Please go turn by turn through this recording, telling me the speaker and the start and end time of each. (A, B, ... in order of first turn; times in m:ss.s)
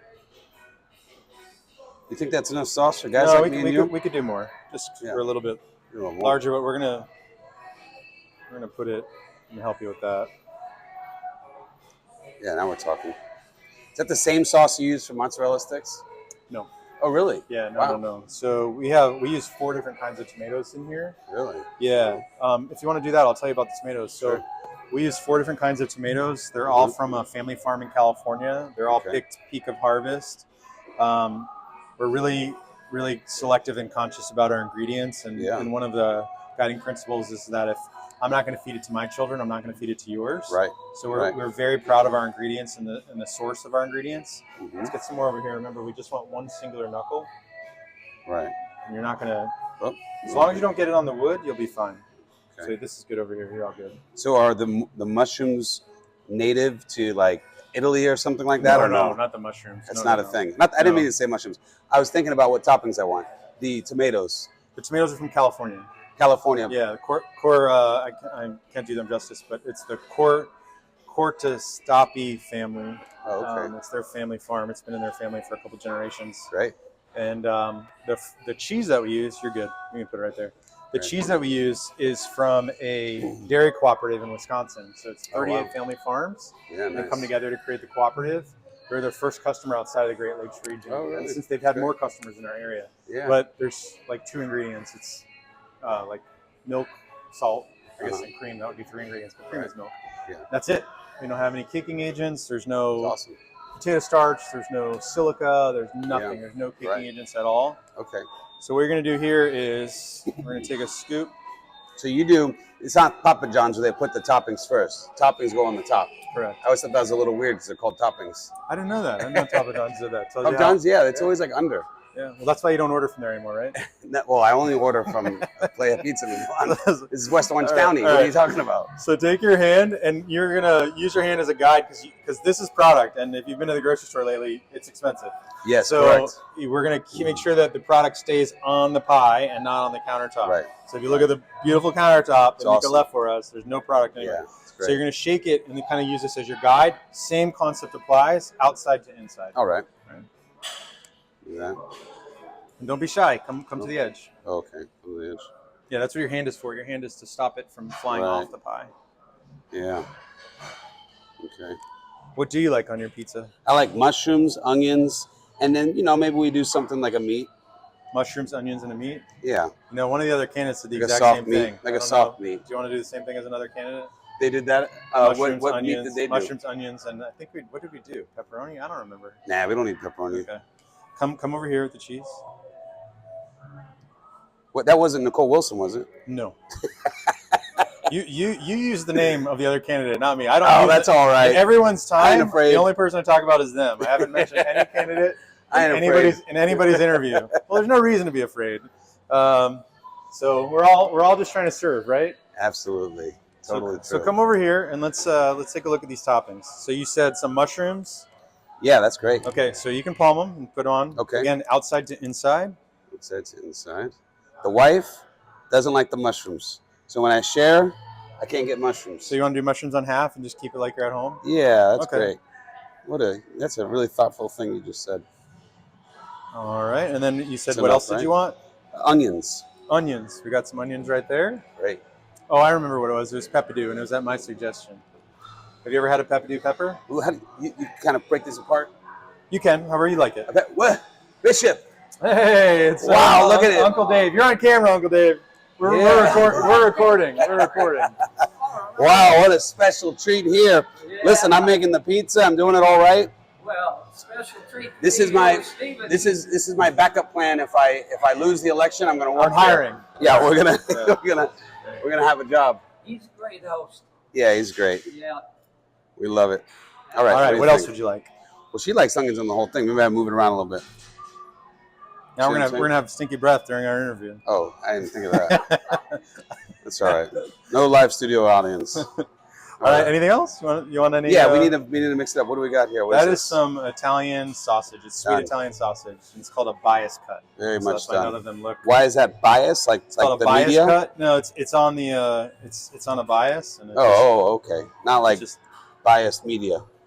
0:02.1-0:03.9 A
0:03.1-0:05.6 B
0:05.9-0:06.4 A
0:06.2-0:07.1 B
0:08.5-0:10.3 B
0:12.4-0:13.2 A
0:13.9-0:16.0 A
0:17.0-0:18.0 A
0:17.5-0:21.2 B
0:21.3-0:21.7 A
0:21.8-0:30.4 B
0:28.9-0:29.2 A
0:31.0-0:47.3 B
0:35.3-0:35.7 A
0:40.5-0:41.3 A
0:44.6-0:44.9 A
0:48.3-0:48.5 A
0:48.8-0:49.5 B
0:49.8-0:50.6 A
0:50.2-0:52.0 B
0:52.6-0:54.0 B
0:54.2-0:59.2 A
0:58.6-1:01.1 B
0:59.9-1:04.5 A
1:04.8-1:05.9 B
1:06.2-1:06.8 A
1:06.7-1:10.5 B
1:11.0-1:16.5 B
1:13.2-1:13.7 A
1:17.1-1:35.2 B
1:25.3-1:25.7 A
1:26.7-1:27.3 A
1:30.9-1:31.9 A
1:33.1-1:33.4 A
1:35.8-1:39.9 B
1:40.5-1:43.2 B
1:43.0-1:43.4 A
1:43.8-1:47.8 B
1:46.1-1:47.0 A
1:48.0-1:48.3 A
1:48.6-1:51.3 B
1:52.0-1:58.5 A
1:56.3-1:56.6 B
1:58.7-2:00.8 B
2:00.4-2:01.9 A
2:02.1-2:03.8 B
2:03.8-2:08.9 A
2:06.6-2:08.4 B
2:09.0-2:29.6 B
2:15.6-2:16.4 A
2:20.4-2:21.2 A
2:22.6-2:23.0 A
2:24.2-2:25.0 A
2:29.5-2:29.8 A
2:31.4-2:31.8 A
2:32.8-2:34.3 B
2:34.4-2:35.5 A
2:35.9-2:38.9 B
2:38.1-2:38.5 A
2:39.7-2:40.0 A
2:41.4-2:41.8 A
2:42.4-2:43.5 B
2:43.6-2:47.5 A
2:48.1-2:49.2 B
2:49.4-2:49.7 A
2:49.9-2:54.1 B
2:50.9-2:52.6 A
2:54.4-2:56.5 A
2:55.2-2:59.4 B
2:59.5-3:00.5 A
3:00.3-3:00.6 B
3:01.2-3:02.4 B
3:04.7-3:06.1 A
3:06.3-3:06.6 B
3:08.0-3:22.4 B
3:10.6-3:12.9 A
3:14.2-3:14.9 A
3:15.7-3:17.4 A
3:22.6-3:24.3 A
3:23.7-3:28.2 B
3:28.8-3:29.5 A
3:29.4-3:32.8 B
3:31.2-3:31.5 A
3:33.1-3:39.3 A
3:39.3-3:41.4 B
3:41.4-3:42.4 A
3:42.0-3:42.3 B
3:43.0-3:45.2 A
3:46.5-3:48.6 B
3:47.7-3:48.3 A
3:48.9-3:49.7 A
3:49.9-3:51.6 B
3:52.5-3:55.0 B
3:55.8-3:57.0 B
3:57.1-3:58.9 A
3:59.5-4:00.5 B
4:00.5-4:01.8 A
4:02.2-4:08.2 B
4:03.0-4:04.0 A
4:05.8-4:06.9 A
4:08.9-4:13.3 A
4:11.1-4:11.6 C
4:13.6-4:16.2 C
4:15.0-4:22.8 A
4:19.4-4:21.2 B
4:23.0-4:24.0 C
4:24.3-4:25.1 A
4:25.1-4:25.4 C
4:26.2-4:27.9 A
4:27.3-4:28.3 B
4:28.7-4:30.8 A
4:32.4-4:34.4 B
4:32.4-4:32.9 A
4:34.4-4:35.7 A
4:35.3-4:36.2 B
4:36.8-4:39.1 A
4:39.8-4:41.8 B
4:39.8-4:40.1 A
4:41.2-4:43.6 A
4:43.1-4:48.8 B
4:45.2-4:45.5 A
4:47.6-4:51.0 A
4:50.2-4:54.2 B
4:53.9-4:55.4 A
4:55.3-4:55.6 B
4:56.0-4:56.8 A